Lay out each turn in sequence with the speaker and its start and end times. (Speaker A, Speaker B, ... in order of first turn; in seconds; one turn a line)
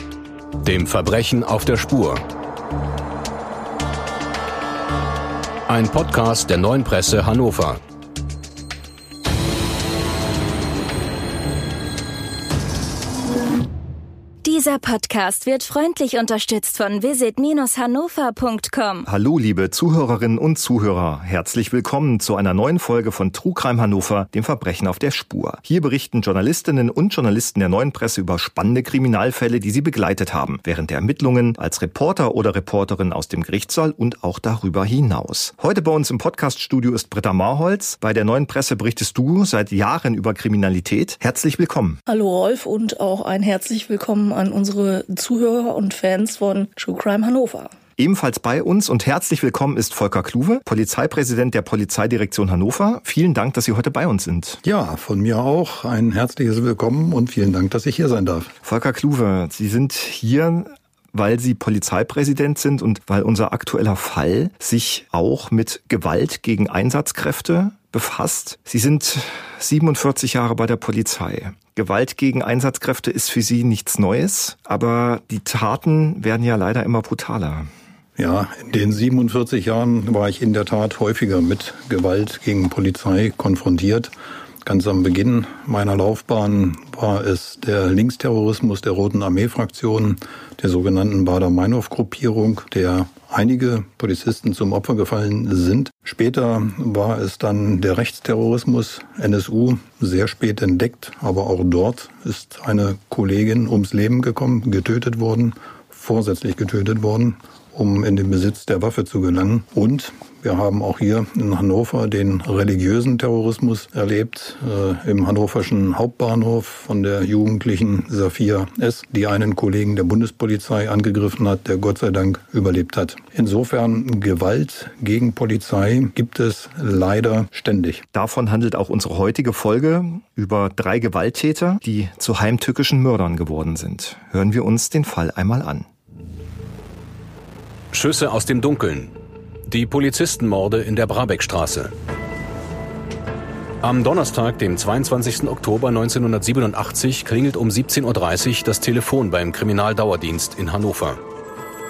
Speaker A: 0.6-2.2
Speaker A: 5.7-7.8
Speaker B: 14.4-19.1
Speaker C: 19.1-42.0
Speaker D: 42.1-47.7
Speaker C: 48.0-54.6
Speaker E: 54.6-58.5
Speaker C: 58.6-77.7
Speaker E: 78.2-84.1
Speaker E: 84.6-128.0
Speaker C: 128.1-135.8
Speaker A: 137.9-139.1
Speaker A: 139.7-141.9
Speaker A: 143.8-151.2